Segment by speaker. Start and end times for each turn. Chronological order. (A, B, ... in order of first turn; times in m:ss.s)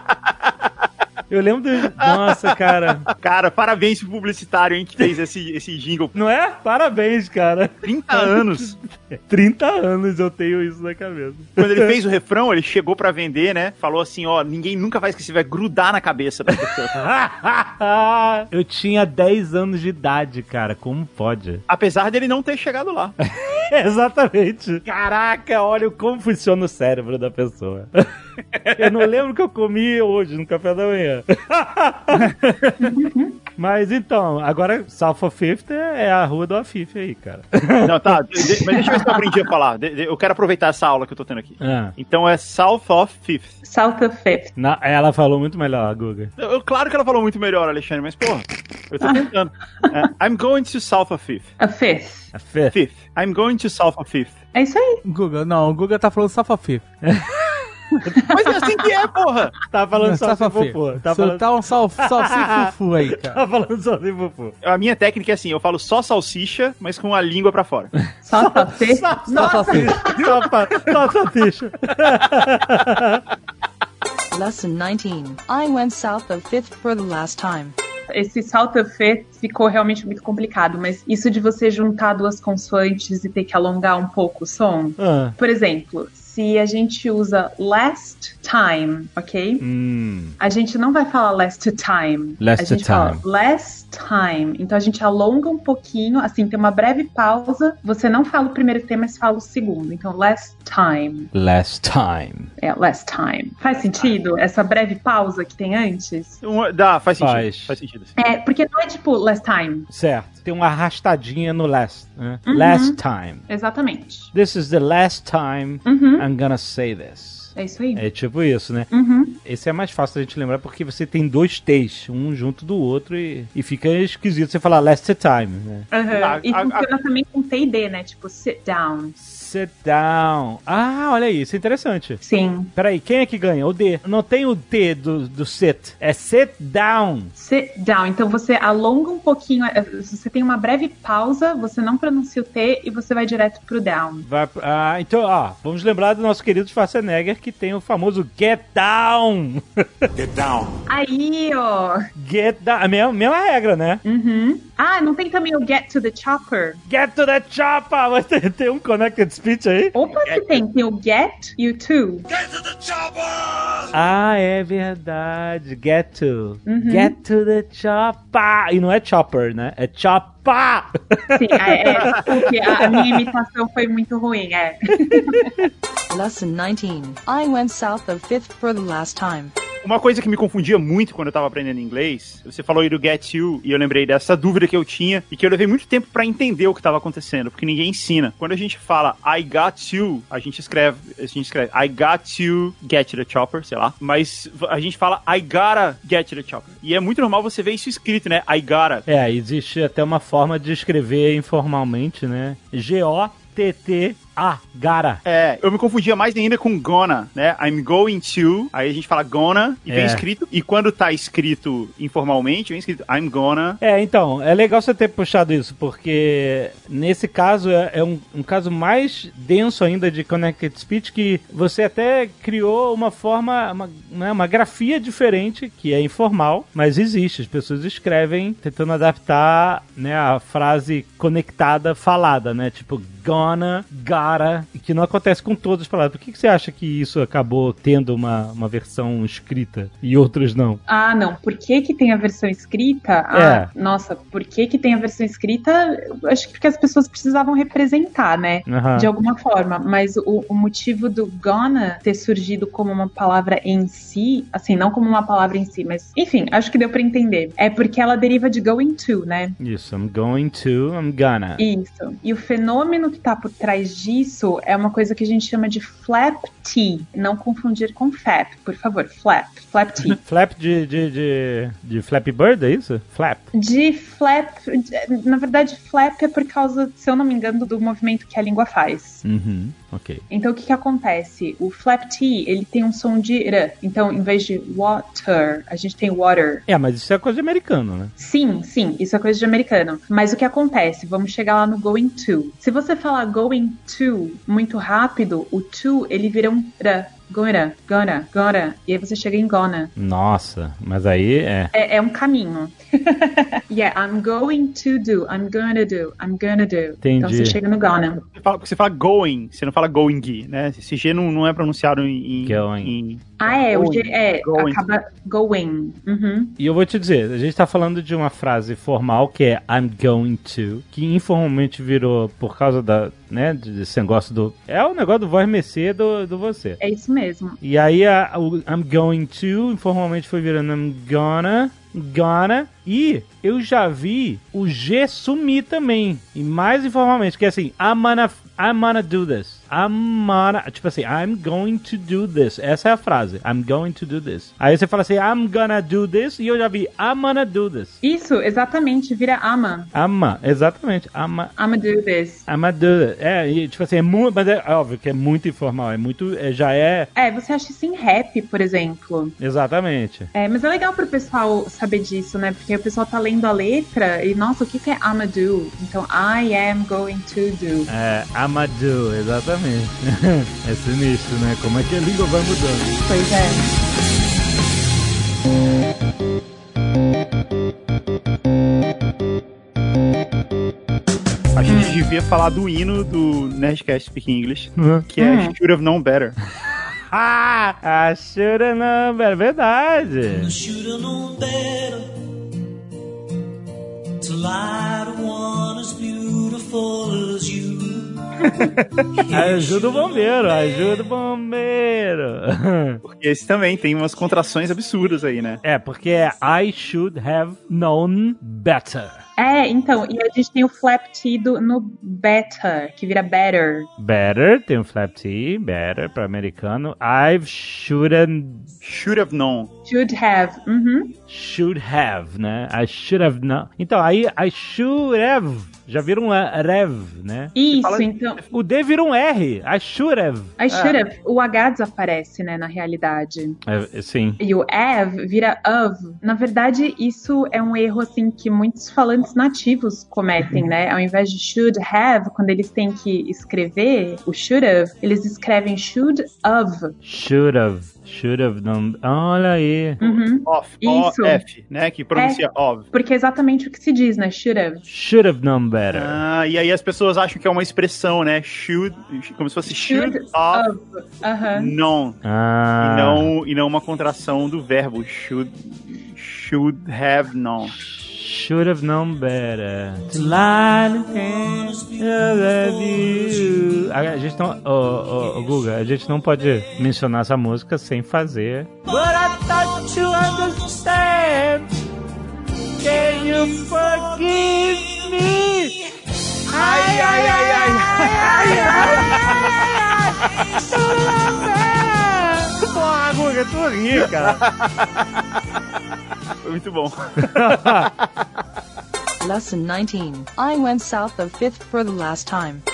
0:01.3-0:03.1 A
0:02.0-0:06.2 B
0:06.2-0:12.0 A
0:07.8-0:08.8 B
0:11.6-0:16.9 B
0:16.9-0:21.6 A
0:21.7-0:23.2 B
0:23.3-0:28.1 A
0:28.5-0:29.0 B
0:28.8-0:33.0 A
0:32.8-0:33.4 C
0:33.6-0:38.5 A
0:37.8-0:43.6 B
0:41.6-0:41.9 A
0:43.6-0:44.6 C
0:44.6-0:46.3 A
0:46.4-0:51.5 B
0:51.6-0:52.3 C
0:52.3-0:52.8 A
0:52.7-0:54.4 B
0:54.5-0:55.0 C
0:55.0-0:56.9 D
0:57.0-0:57.4 A
0:58.1-0:58.5 C
0:58.3-0:59.6 B
0:59.7-1:04.6 A
1:00.0-1:03.4 D
1:04.6-1:07.9 B
1:08.1-1:13.2 A
1:08.2-1:10.3 C
1:09.3-1:10.4 D
1:14.3-1:17.8 E
1:18.1-1:29.7 C
1:25.0-1:25.4 A
1:29.6-1:30.4 A
1:30.4-1:41.3 C
1:32.4-1:33.2 A
1:41.3-1:42.5 A
1:42.6-1:46.4 C
1:46.4-1:48.2 B
1:47.2-1:47.8 A
1:48.2-1:49.9 C
1:49.9-1:53.4 A
1:52.5-1:54.3 C
1:54.3-2:05.9 A
1:55.8-1:56.3 C
1:57.6-1:58.1 C
1:58.9-1:59.4 C
2:05.9-2:09.2 C
2:06.1-2:06.9 B
2:09.2-2:12.2 A
2:12.2-2:12.7 C
2:12.7-2:17.3 A
2:17.4-2:24.3 C
2:24.2-2:30.3 A
2:30.9-2:32.0 C
2:32.2-2:34.0 A
2:34.0-2:36.8 C
2:36.9-2:40.0 A
2:39.9-2:42.3 C
2:43.9-2:53.3 A
2:46.7-2:47.2 C
2:51.3-2:55.6 C
2:52.0-2:52.2 B
2:55.1-2:55.7 A
2:56.1-2:59.5 E
2:59.8-3:19.0 B
3:19.1-3:25.2 A
3:25.2-3:33.8 B
3:29.9-3:30.2 A
3:33.8-4:00.8 A
4:00.9-4:19.6 C
4:03.3-4:03.7 A
4:08.7-4:09.1 A
4:19.6-4:21.6 A
4:21.6-4:30.2 C
4:30.2-4:33.5 A
4:33.5-4:39.2 C
4:39.2-4:40.2 A
4:40.3-4:46.6 C
4:46.7-4:48.1 A
4:48.2-4:59.9 C
5:00.0-5:01.7 A
5:01.7-5:08.2 C
5:07.0-5:07.6 A
5:08.3-5:14.8 B
5:12.4-5:13.0 A
5:13.4-5:16.6 C
5:16.6-5:26.8 A
5:26.8-5:27.6 C
5:27.6-5:48.0 A
5:48.0-5:49.9 C
5:49.9-5:51.5 A
5:51.6-5:52.5 C
5:52.5-5:57.1 A
5:57.2-5:59.4 C
5:59.4-6:00.3 A
6:00.3-6:07.9 C
6:07.9-6:13.0 A
6:13.1-6:13.6 C
6:21.5-6:26.4 B
6:21.7-6:22.0 C
6:24.8-6:25.0 A
6:25.2-6:25.5 C
6:26.6-6:30.5 A
6:30.3-6:32.2 F
6:34.2-6:38.6 F
6:39.2-6:41.0 F
6:39.3-6:43.0 A
6:43.0-6:45.6 B
6:45.6-6:49.2 A
6:49.4-6:53.9 C
6:54.0-6:58.7 A
6:58.8-6:59.7 B
6:59.9-7:01.2 C
7:01.3-7:07.6 A
7:07.6-7:08.4 C
7:07.6-7:08.4 B
7:08.5-7:10.6 A
7:10.6-7:13.6 C
7:10.7-7:11.0 B
7:13.6-7:14.4 A
7:14.4-7:26.9 C
7:27.0-7:30.0 A
7:30.0-7:31.4 C
7:30.0-7:32.9 B
7:32.1-7:32.4 C
7:32.9-7:34.9 C
7:34.9-7:36.2 A
7:35.9-7:40.7 B
7:39.7-7:41.7 C
7:41.5-7:42.2 B
7:42.2-7:43.3 A
7:42.8-7:47.8 B
7:48.0-8:01.7 A
7:50.0-7:54.2 F
7:55.0-7:56.9 F
7:58.8-8:01.7 F
8:02.8-8:05.8 F
8:02.8-8:05.7 A
8:06.5-8:14.4 A
8:06.6-8:08.8 B
8:07.2-8:09.7 F
8:10.5-8:11.5 F
8:14.2-8:14.5 B
8:16.4-8:17.9 B
8:17.2-8:17.9 A
8:19.2-8:22.6 E